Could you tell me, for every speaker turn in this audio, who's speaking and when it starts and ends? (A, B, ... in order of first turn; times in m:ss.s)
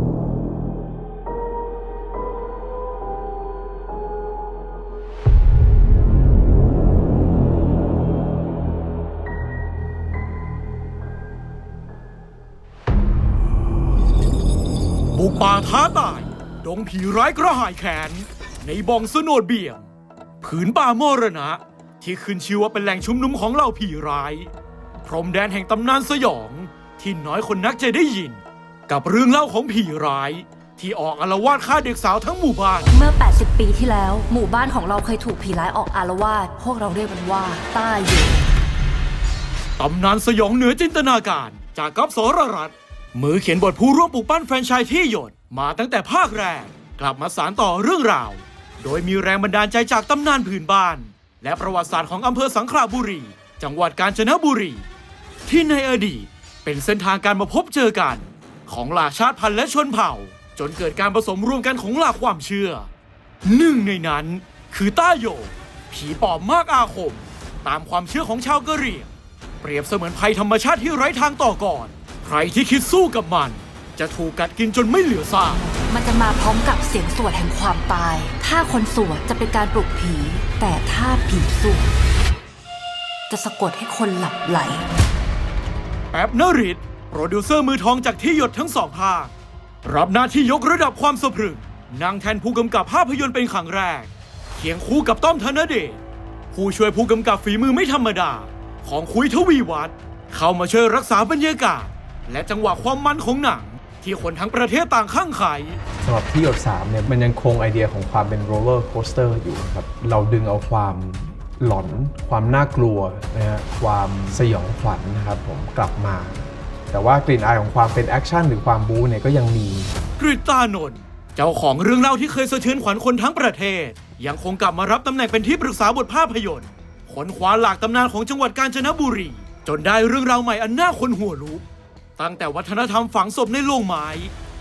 0:15.1-0:19.9 A
0:20.4-0:24.5 A
0:25.0-0:32.9 A
0:32.9-0:38.5 B
0:39.8-0:54.9 A
0:55.5-1:02.9 A
1:03.4-1:09.1 A
1:09.6-1:15.6 A
1:15.6-1:21.9 B
1:23.3-1:24.9 B
1:26.1-1:29.3 A
1:29.8-1:36.0 A
1:36.5-1:45.8 A
1:46.0-1:59.9 C
2:00.2-2:11.6 A
2:12.2-2:14.3 A